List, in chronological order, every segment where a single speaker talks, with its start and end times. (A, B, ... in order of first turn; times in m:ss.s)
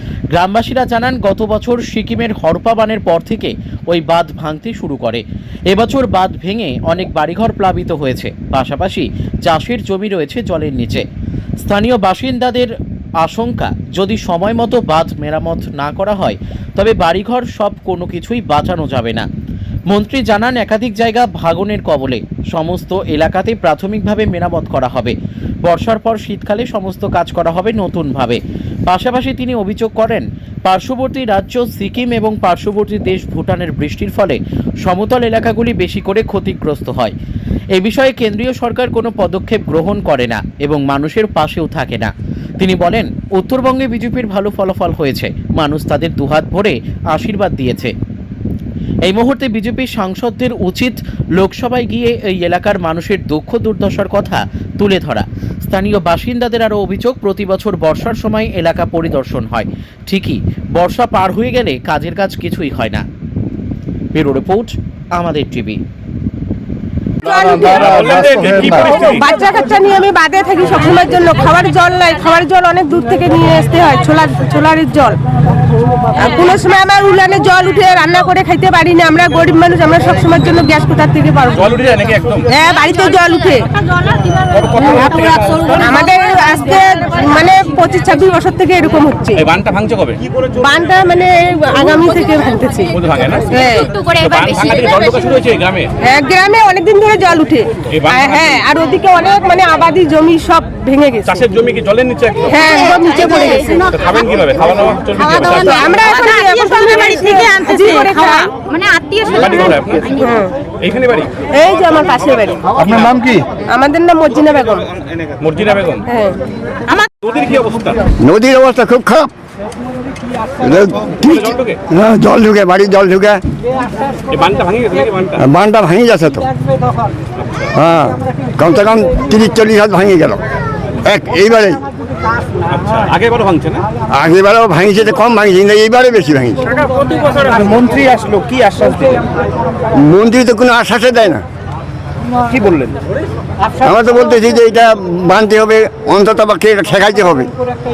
0:00.3-0:11.0 A
0:11.6-0:19.3 A
0:19.9-0:25.1 A
0:25.6-0:37.1 A
0:37.7-0:47.9 A
0:49.0-1:03.0 A
1:04.1-1:05.8 A
1:07.2-1:07.9 B
1:07.2-1:09.2 C
1:09.0-1:15.2 B
1:16.1-1:21.7 B
1:21.5-1:22.5 C
1:22.5-1:23.7 B
1:24.4-1:26.1 C
1:25.7-1:29.4 B
1:29.3-1:30.2 C
1:30.6-1:32.9 B
1:32.9-1:35.9 C
1:33.5-1:33.9 B
1:33.7-1:35.2 D
1:36.0-1:41.4 B
1:37.9-1:38.6 C
1:41.2-1:42.8 C
1:42.5-1:43.9 B
1:42.7-1:43.6 D
1:43.7-1:46.0 C
1:45.2-1:50.0 D
1:45.4-1:48.6 B
1:49.4-1:50.2 C
1:50.1-1:50.5 B
1:50.8-1:51.4 C
1:51.5-1:52.7 B
1:52.7-1:53.3 C
1:53.6-1:54.9 B
1:55.4-1:56.1 C
1:56.1-1:56.4 B
1:57.2-1:58.0 C
1:58.2-1:59.3 E
2:00.6-2:03.4 E
2:01.2-2:01.8 C
2:04.3-2:05.4 C
2:05.4-2:06.5 E
2:07.4-2:07.7 C
2:07.7-2:10.4 E
2:11.0-2:11.8 E
2:12.7-2:13.8 C
2:14.1-2:16.6 E
2:17.0-2:19.2 C
2:19.9-2:21.4 E
2:22.5-2:23.0 C
2:23.8-2:27.5 E